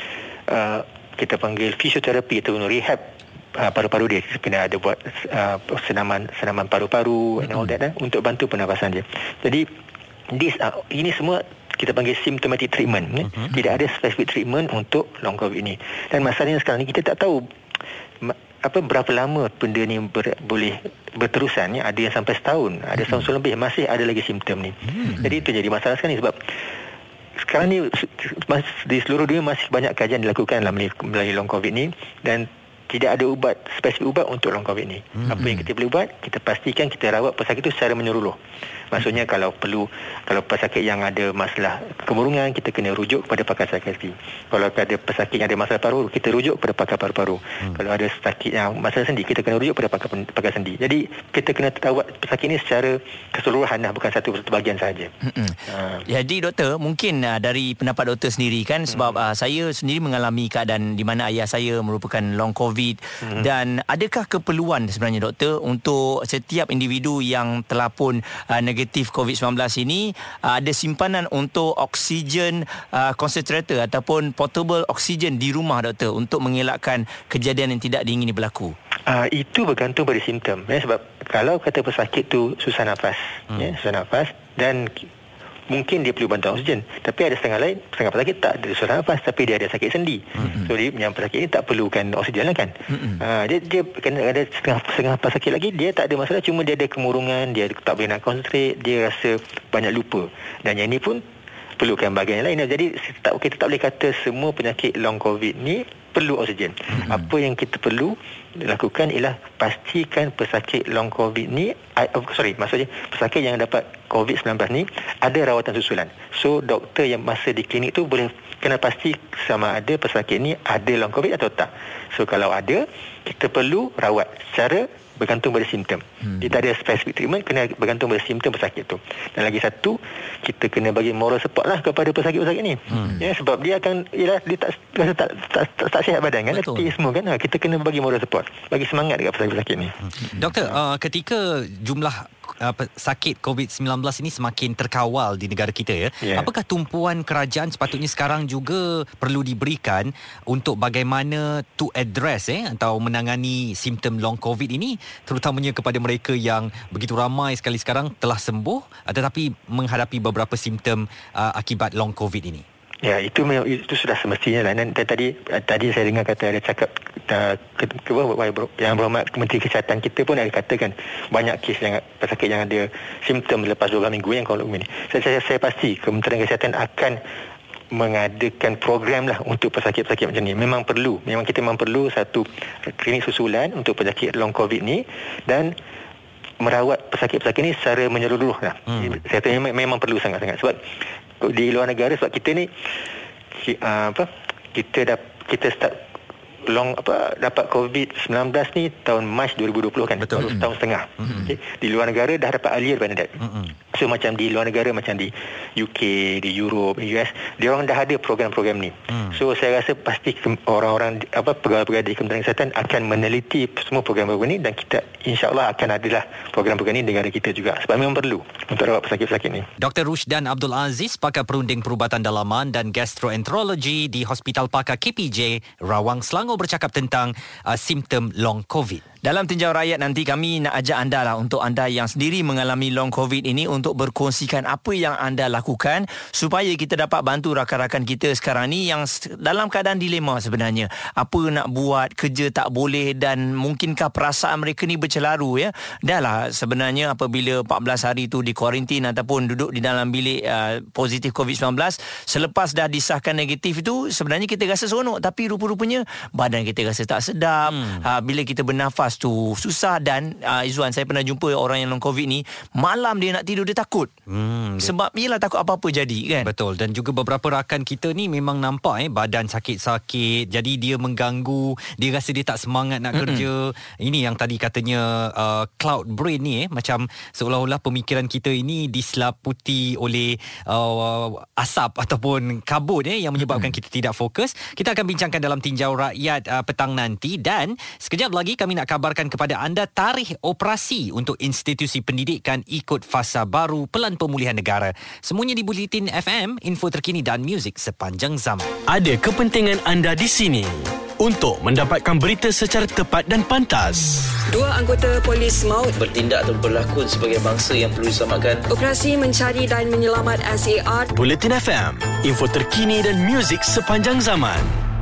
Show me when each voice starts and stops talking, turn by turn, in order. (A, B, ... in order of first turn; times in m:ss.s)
0:00.5-0:09.7 A
0:10.3-0:17.4 A
0:18.2-0:26.4 A
0:24.9-0:25.3 B
0:27.4-0:38.4 A
0:35.2-0:35.6 B
0:38.9-0:55.1 A
0:55.2-1:18.7 C
0:55.7-0:56.0 A
1:19.1-1:25.0 A
1:25.7-1:41.2 A
1:32.9-1:33.2 C
1:41.8-2:19.9 A
2:16.5-2:16.9 C
2:20.3-2:42.6 B
2:26.2-2:26.5 A
2:43.0-2:57.2 A
2:57.9-3:05.7 A
3:06.6-3:10.8 A
3:08.9-3:09.2 B
3:11.4-3:12.7 A
3:13.5-3:16.0 A
3:16.6-3:23.4 A
3:20.2-3:20.6 B
3:21.2-3:21.6 B
3:23.4-3:23.7 B
3:23.9-3:39.7 A
3:29.1-3:29.4 B
3:39.8-3:49.0 B
3:49.2-4:24.1 C
4:17.7-4:18.0 B
4:24.3-4:24.9 B
4:24.8-4:26.5 C
4:26.4-4:58.7 B
4:33.2-4:33.4 C
4:58.9-5:04.3 D
5:04.5-5:06.0 E
5:06.0-5:08.7 F
5:08.7-5:11.1 E
5:11.1-5:14.8 D